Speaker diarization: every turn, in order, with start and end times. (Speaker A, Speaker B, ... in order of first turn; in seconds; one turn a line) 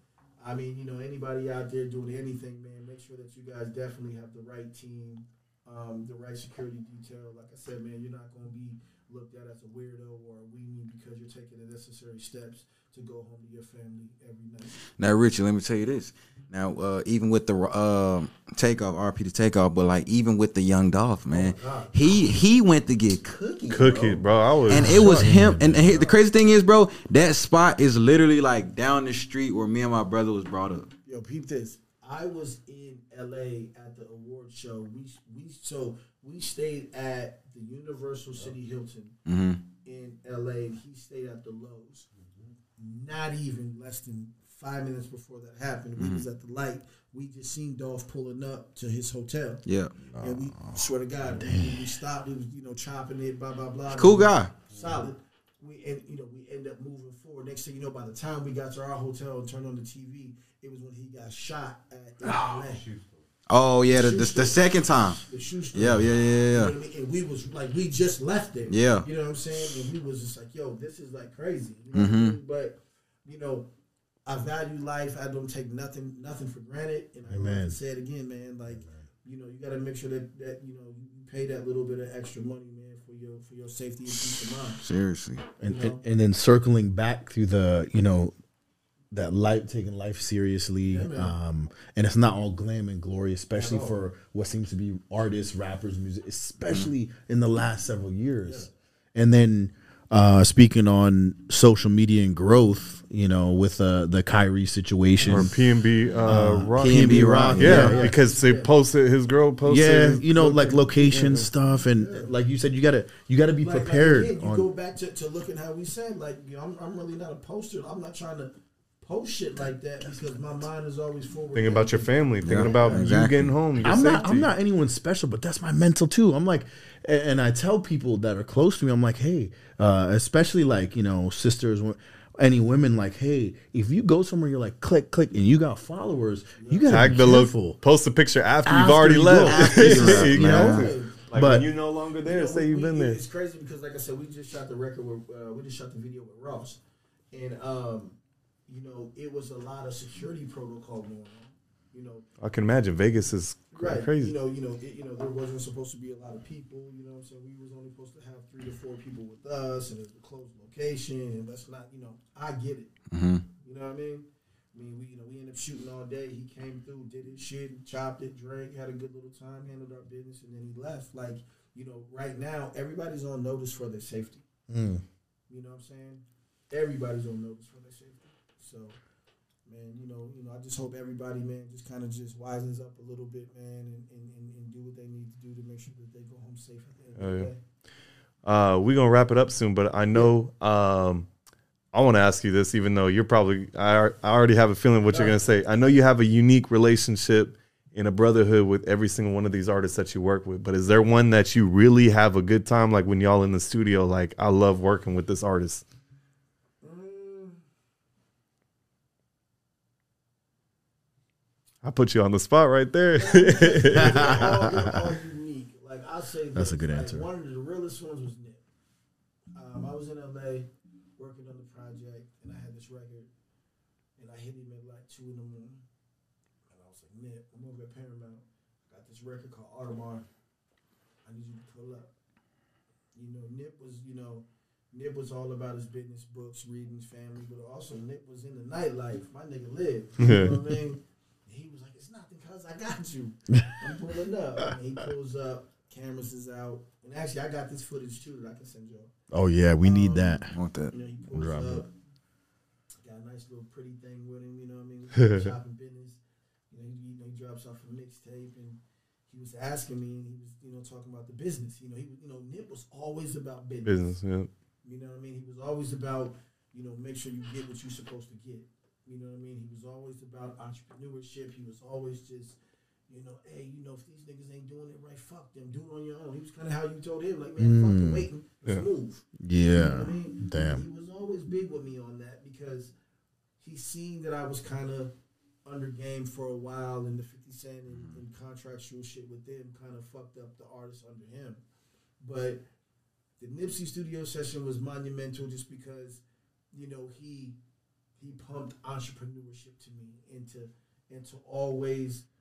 Speaker A: 0.4-14.8
Speaker B: 15.0-23.4
Speaker A: 21.3-22.3
Speaker A: 23.3-24.2
Speaker C: 23.7-25.1
Speaker B: 24.7-30.9
Speaker D: 24.7-25.9
Speaker A: 25.9-26.1
Speaker A: 31.1-39.2
Speaker B: 39.3-39.6
Speaker A: 39.8-42.1
Speaker A: 42.8-49.6
Speaker B: 46.0-46.2
Speaker B: 49.7-49.9
Speaker D: 50.1-51.8
Speaker A: 50.2-62.9
Speaker B: 53.9-54.5
Speaker D: 62.3-62.6
Speaker B: 63.5-65.2
Speaker A: 63.9-73.7
Speaker B: 65.7-66.7
Speaker B: 68.7-69.1
Speaker B: 71.9-72.4
Speaker A: 74.3-84.8
Speaker D: 77.3-77.8
Speaker B: 84.8-85.5
Speaker D: 85.6-88.3
Speaker A: 85.6-86.0
Speaker D: 89.1-105.6
Speaker A: 90.9-91.3
Speaker A: 93.5-94.0
Speaker C: 105.2-111.5
Speaker D: 106.3-108.1
Speaker B: 106.8-108.1
Speaker A: 107.4-108.7
Speaker D: 109.7-114.7
Speaker A: 112.0-112.3
Speaker A: 113.6-123.2
Speaker C: 121.5-124.5
Speaker B: 122.4-123.6
Speaker D: 123.8-137.8
Speaker A: 123.9-124.3
Speaker A: 136.6-137.1
Speaker C: 136.9-143.2
Speaker D: 138.7-141.7
Speaker B: 139.5-140.9
Speaker A: 140.4-141.2
Speaker A: 142.2-146.8
Speaker A: 147.3-152.2
Speaker C: 152.4-154.3
Speaker A: 153.8-162.9
Speaker B: 163.1-163.4
Speaker A: 163.6-174.4
Speaker D: 174.7-175.0
Speaker A: 175.5-179.0
Speaker A: 179.7-187.6
Speaker C: 187.2-187.5
Speaker C: 188.4-191.3
Speaker C: 191.9-205.8
Speaker A: 195.1-195.4
Speaker A: 206.8-207.6
Speaker C: 211.8-214.9
Speaker A: 213.2-218.6
Speaker D: 213.9-215.0
Speaker D: 216.6-217.3
Speaker A: 219.5-223.3
Speaker A: 224.2-225.8
Speaker A: 226.7-230.3
Speaker A: 231.2-232.1
Speaker A: 233.2-249.1
Speaker C: 240.2-240.6
Speaker D: 243.5-243.8
Speaker D: 249.3-250.5
Speaker A: 249.8-251.9
Speaker B: 250.5-250.9
Speaker D: 251.3-251.9
Speaker A: 253.0-256.2
Speaker A: 256.7-264.0
Speaker C: 263.9-264.5
Speaker A: 264.8-272.6
Speaker A: 273.1-282.9
Speaker D: 277.6-278.3
Speaker D: 279.4-280.8
Speaker A: 283.6-285.1
Speaker A: 285.6-291.6
Speaker A: 292.2-292.6
Speaker A: 293.4-296.2
Speaker A: 296.7-297.6
Speaker A: 298.2-302.2